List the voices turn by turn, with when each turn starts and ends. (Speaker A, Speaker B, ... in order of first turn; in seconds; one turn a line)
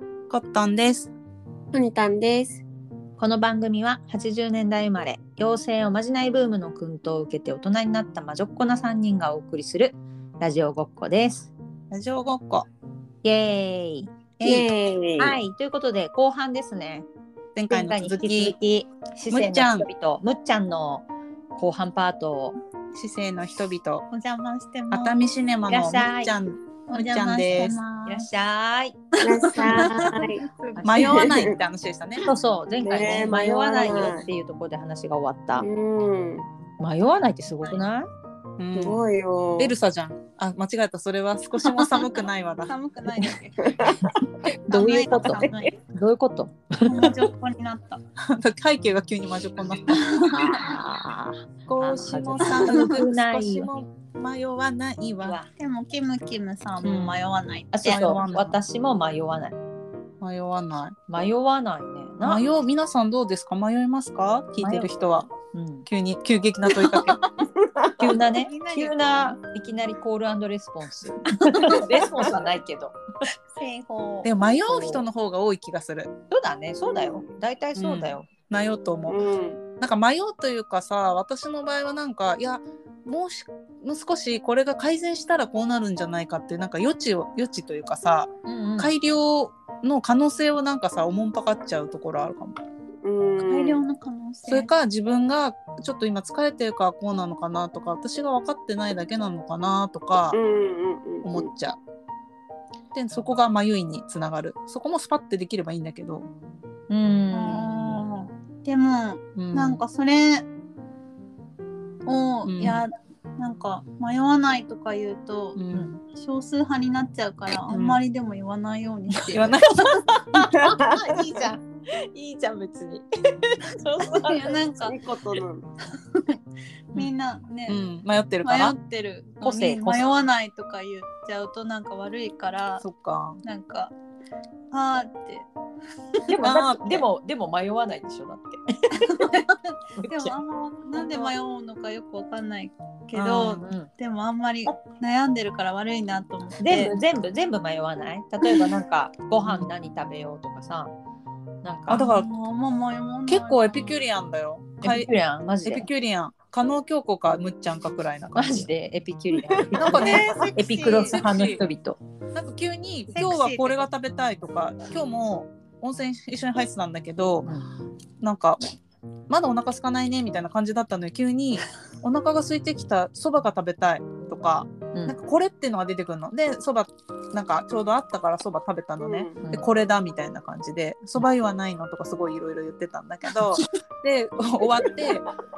Speaker A: 0.3-1.1
Speaker B: 1.7-2.6
Speaker C: 3.2-11.5
Speaker A: 11.9-12.7
Speaker C: 13.2-14.1
Speaker A: 14.4-14.7
Speaker B: 14.4-15.4
Speaker C: 15.2-17.1
Speaker A: 17.5-18.6
Speaker C: 17.7-22.6
Speaker A: 19.3-19.9
Speaker A: 22.9-24.1
Speaker D: 24.1-25.2
Speaker A: 24.9-27.8
Speaker C: 25.7-26.3
Speaker D: 26.9-28.3
Speaker C: 28.0-29.0
Speaker D: 29.2-30.8
Speaker B: 29.2-31.6
Speaker C: 30.8-31.2
Speaker A: 30.8-32.3
Speaker C: 32.2-35.7
Speaker B: 32.8-34.2
Speaker B: 35.6-36.5
Speaker C: 36.8-38.1
Speaker A: 38.6-39.0
Speaker B: 38.7-39.7
Speaker A: 39.6-42.7
Speaker D: 41.6-42.0
Speaker D: 42.7-43.7
Speaker B: 43.6-44.1
Speaker D: 44.7-45.8
Speaker C: 44.7-47.2
Speaker B: 45.0-45.5
Speaker D: 46.8-48.0
Speaker A: 48.3-50.6
Speaker D: 49.9-50.5
Speaker C: 50.2-53.7
Speaker A: 51.7-55.4
Speaker D: 52.4-52.9
Speaker C: 55.2-55.5
Speaker D: 55.6-58.2
Speaker A: 56.8-57.2
Speaker C: 57.7-59.5
Speaker A: 57.9-58.6
Speaker A: 60.2-61.0
Speaker C: 61.1-62.5
Speaker A: 62.2-65.3
Speaker C: 64.6-64.9
Speaker C: 65.5-65.8
Speaker A: 65.8-67.2
Speaker B: 67.6-68.1
Speaker C: 68.0-73.0
Speaker D: 68.2-69.3
Speaker D: 71.4-72.0
Speaker D: 73.5-74.3
Speaker A: 74.2-76.1
Speaker C: 74.7-75.0
Speaker C: 76.3-78.3
Speaker A: 77.7-79.2
Speaker B: 79.1-79.6
Speaker A: 79.8-92.6
Speaker C: 88.5-88.9
Speaker B: 93.0-93.8
Speaker D: 93.4-94.7
Speaker A: 94.5-100.4
Speaker B: 100.3-101.5
Speaker A: 101.2-101.8
Speaker A: 102.9-106.3
Speaker C: 106.9-108.0
Speaker D: 107.3-110.4
Speaker A: 109.3-109.8
Speaker D: 112.0-115.6
Speaker A: 112.4-112.8
Speaker A: 115.5-116.0
Speaker D: 116.1-119.6
Speaker A: 117.7-118.0
Speaker C: 119.3-124.6
Speaker A: 119.3-120.0
Speaker B: 120.5-121.2
Speaker D: 124.0-125.0
Speaker B: 124.8-125.7
Speaker D: 125.9-126.4
Speaker D: 126.9-127.8
Speaker A: 127.7-128.8
Speaker D: 128.4-132.8
Speaker C: 129.4-130.0
Speaker A: 132.8-133.4
Speaker D: 133.4-133.9
Speaker D: 134.7-135.5
Speaker C: 136.3-139.5
Speaker A: 136.4-137.1
Speaker D: 138.9-146.9
Speaker C: 140.0-140.3
Speaker A: 143.1-143.6
Speaker C: 143.5-143.9
Speaker C: 146.6-150.9
Speaker A: 149.4-149.7
Speaker C: 151.6-152.1
Speaker A: 151.9-152.3
Speaker D: 151.9-153.9
Speaker A: 153.3-155.1
Speaker C: 154.8-155.8
Speaker A: 155.6-158.7
Speaker C: 158.3-162.0
Speaker B: 159.3-160.4
Speaker A: 159.8-160.4
Speaker D: 159.8-161.3
Speaker A: 161.0-161.6
Speaker A: 162.3-167.5
Speaker D: 163.1-163.8
Speaker A: 168.2-168.6
Speaker A: 169.3-185.3
Speaker B: 179.0-179.4